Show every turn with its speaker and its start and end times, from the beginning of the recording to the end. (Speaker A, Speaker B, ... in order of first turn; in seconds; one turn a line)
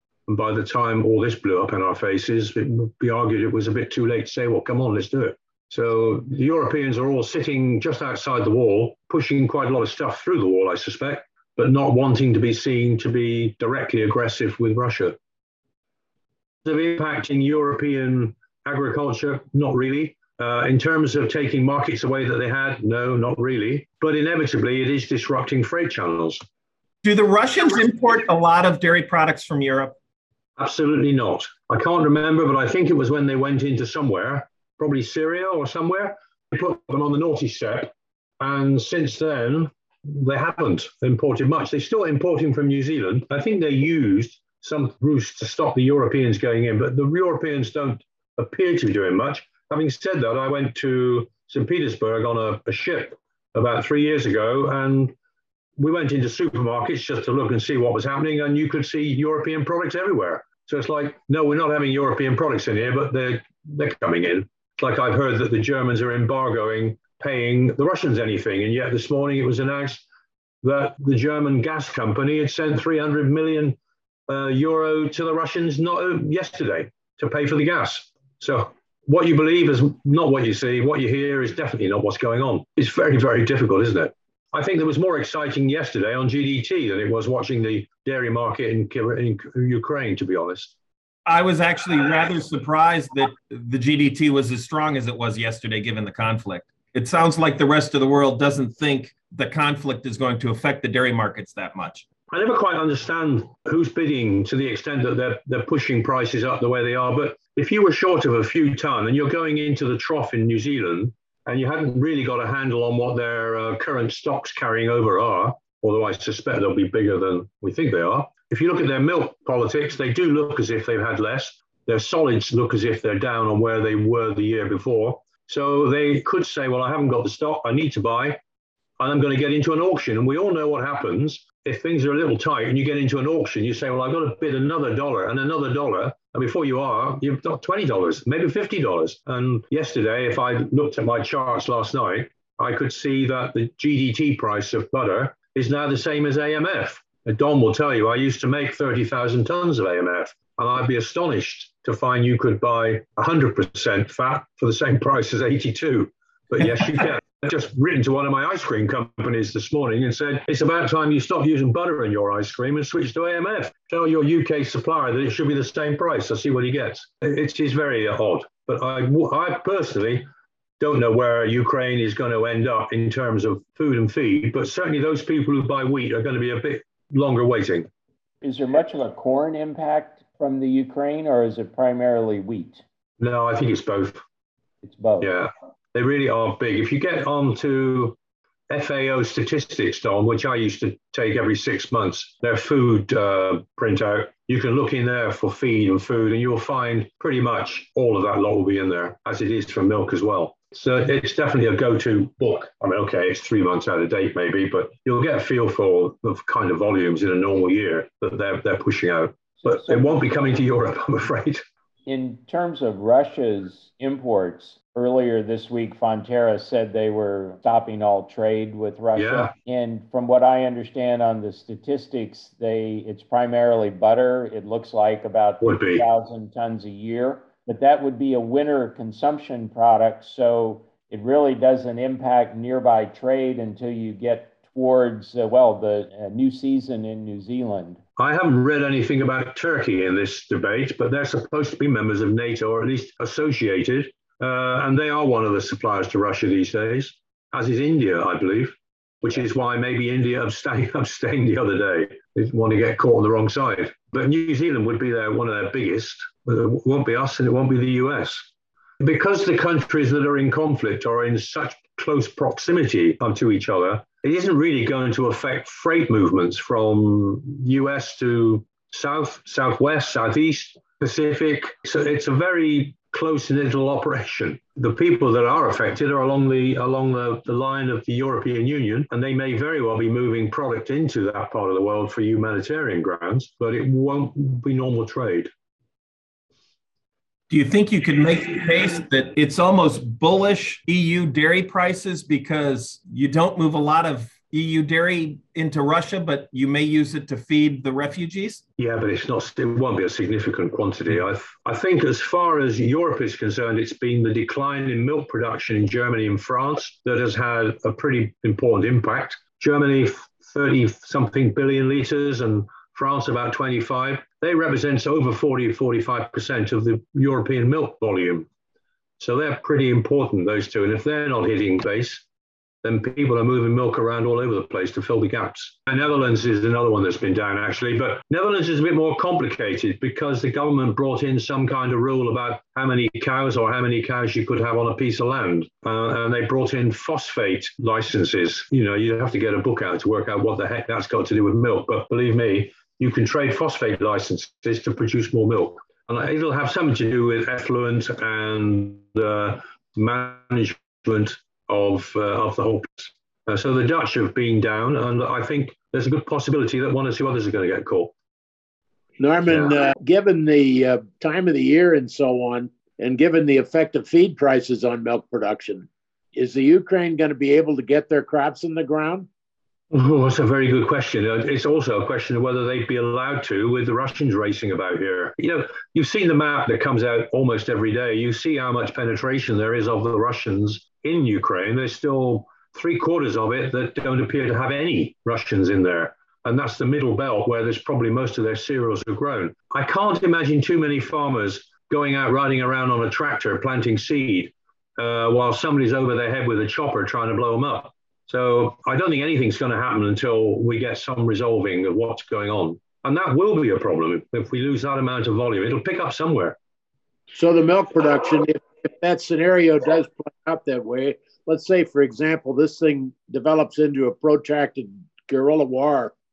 Speaker A: 0.3-15.2
Speaker A: 16.6-26.4
Speaker B: 27.0-29.9
Speaker A: 30.6-55.1
Speaker A: 55.8-70.0
Speaker A: 70.6-90.7
Speaker B: 91.2-102.0
Speaker A: 102.3-128.4
Speaker A: 129.0-170.2
Speaker A: 170.8-177.9
Speaker C: 178.4-182.8
Speaker A: 183.2-184.2
Speaker C: 184.8-185.3
Speaker A: 185.2-188.2
Speaker A: 188.7-211.6
Speaker C: 209.6-210.2
Speaker C: 212.1-238.0
Speaker A: 219.2-219.5
Speaker A: 225.6-226.0
Speaker A: 238.2-258.4
Speaker A: 259.0-285.5
Speaker B: 287.5-298.6
Speaker A: 298.8-318.5
Speaker A: 319.2-322.2
Speaker A: 322.8-358.1
Speaker D: 359.2-369.3
Speaker A: 359.5-359.7
Speaker A: 369.9-406.6
Speaker D: 407.3-416.1